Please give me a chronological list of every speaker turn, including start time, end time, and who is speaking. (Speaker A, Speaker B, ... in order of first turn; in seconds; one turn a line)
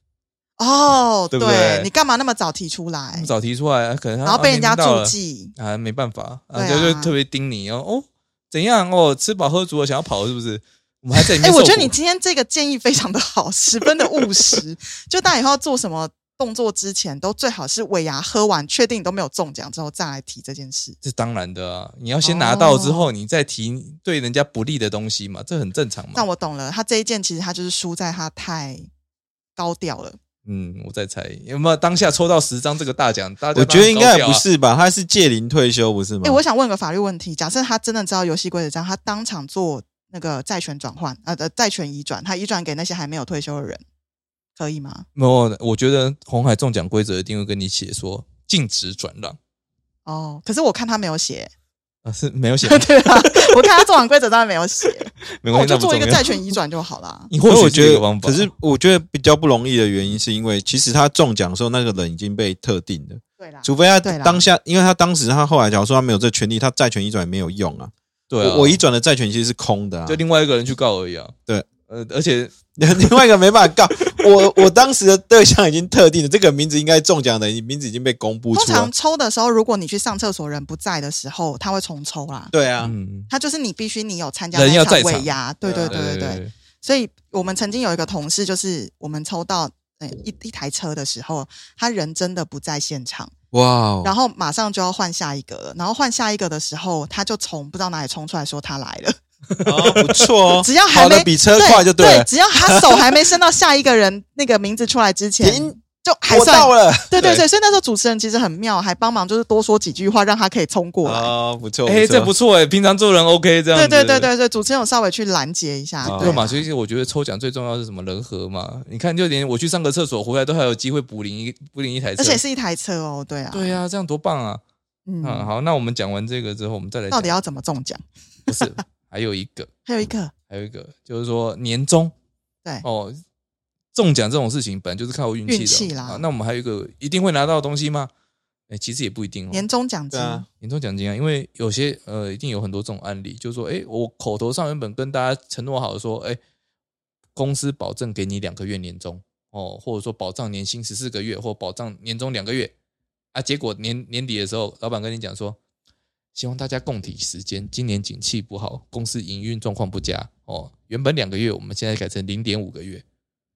Speaker A: 0.6-3.3
Speaker B: 1.3-1.9
Speaker B: 3.1-11.9
Speaker A: 4.2-5.5
Speaker A: 6.5-7.1
Speaker A: 11.4-21.0
Speaker B: 21.0-26.2
Speaker A: 22.2-23.1
Speaker A: 26.1-28.9
Speaker A: 29.6-30.2
Speaker B: 30.4-34.4
Speaker C: 33.5-36.4
Speaker A: 36.2-43.8
Speaker A: 44.6-45.0
Speaker B: 45.2-49.4
Speaker A: 50.1-51.5
Speaker B: 52.0-53.5
Speaker A: 52.6-57.3
Speaker B: 55.3-56.5
Speaker B: 57.3-58.5
Speaker C: 57.5-70.2
Speaker A: 63.4-64.4
Speaker B: 68.3-68.8
Speaker B: 70.1-71.3
Speaker B: 71.9-73.0
Speaker C: 72.8-78.9
Speaker A: 78.5-82.5
Speaker C: 82.5-82.9
Speaker B: 82.8-83.3
Speaker A: 83.3-93.3
Speaker B: 84.5-85.3
Speaker C: 85.6-86.0
Speaker B: 85.9-86.5
Speaker C: 93.5-94.1
Speaker A: 94.0-99.2
Speaker C: 99.7-103.2
Speaker A: 100.6-111.3
Speaker C: 105.4-105.7
Speaker C: 106.3-107.2
Speaker C: 111.0-112.3
Speaker B: 111.9-114.3
Speaker A: 113.8-116.7
Speaker C: 116.0-116.4
Speaker B: 116.1-122.4
Speaker A: 122.2-123.8
Speaker B: 123.5-124.6
Speaker A: 125.1-125.5
Speaker B: 125.2-127.4
Speaker A: 127.1-128.0
Speaker B: 128.5-129.7
Speaker A: 129.9-130.3
Speaker B: 130.5-132.1
Speaker B: 132.8-133.2
Speaker B: 133.9-138.1
Speaker A: 135.5-136.2
Speaker B: 138.7-139.7
Speaker A: 139.5-140.5
Speaker C: 140.1-140.4
Speaker B: 140.6-146.4
Speaker B: 147.4-152.7
Speaker B: 153.3-155.6
Speaker B: 156.3-163.0